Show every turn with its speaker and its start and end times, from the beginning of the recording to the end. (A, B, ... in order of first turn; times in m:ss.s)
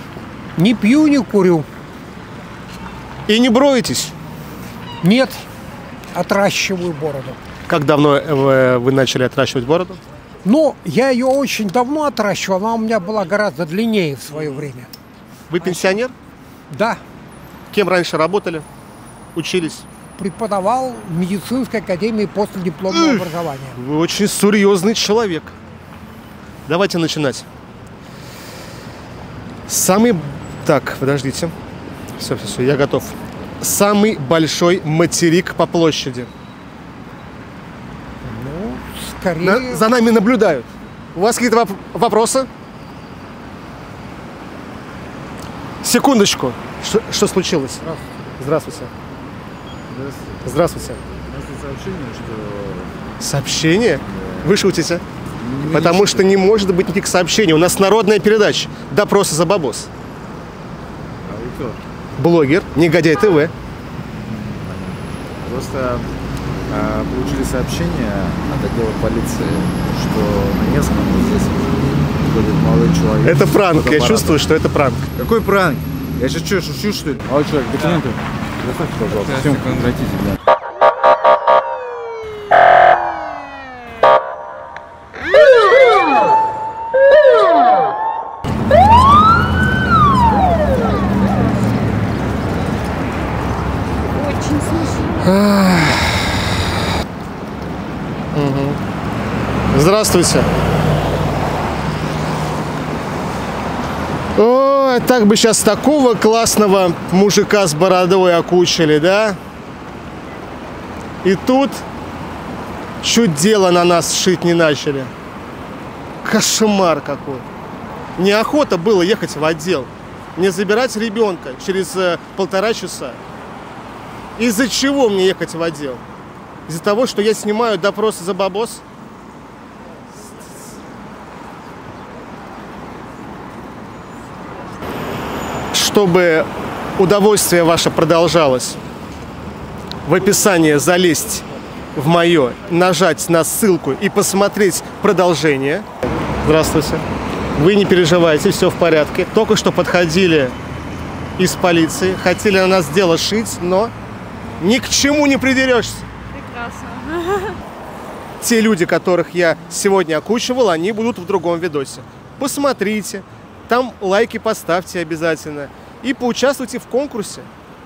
0:00.6-0:01.7 A
0:03.3-0:04.2 B
0:05.0-0:05.4 A
0:06.1-0:07.4 A
0:07.7-0:10.0 B
0:10.4-0:14.9 A
0:15.5-0:16.2 B
0:15.6-0:16.0 A
0:16.7-0:17.0 A
0:17.7-0:18.7 B
0:19.4-0:19.9 B
0:20.2-0:23.8 A
0:22.9-0:25.6 B
0:26.7-0:27.5 B
0:29.7-0:31.5 B
0:32.2-0:36.3 B
0:38.2-0:39.8 A
0:39.4-0:42.5 B
0:45.8-0:47.8 B
0:48.4-0:48.9 B
0:49.9-0:50.4 C
0:50.4-0:51.0 B
0:51.3-0:52.9 C
0:53.2-0:55.0 B
0:54.1-0:54.7 C
0:55.4-0:56.4 C
0:55.7-0:59.9 B
1:01.2-1:01.8 C
1:02.2-1:03.5 B
1:04.2-1:06.1 C
1:06.7-1:14.4 C
1:13.2-1:15.1 B
1:15.2-1:20.4 C
1:34.1-1:35.3 D
1:35.2-1:36.4 B
1:38.3-1:38.8 B
1:39.7-1:40.5 B
1:44.4-1:49.4 B
1:51.2-1:51.9 B
1:53.0-1:55.1 B
1:56.2-1:57.5 B
1:58.2-2:03.2 B
2:04.4-2:06.0 B
2:06.7-2:08.8 B
2:15.7-2:18.8 B
2:20.0-2:25.9 B
2:26.4-2:30.6 B
2:31.4-2:33.9 B
2:34.6-2:36.1 B
2:36.3-2:37.6 D
2:38.4-2:47.5 B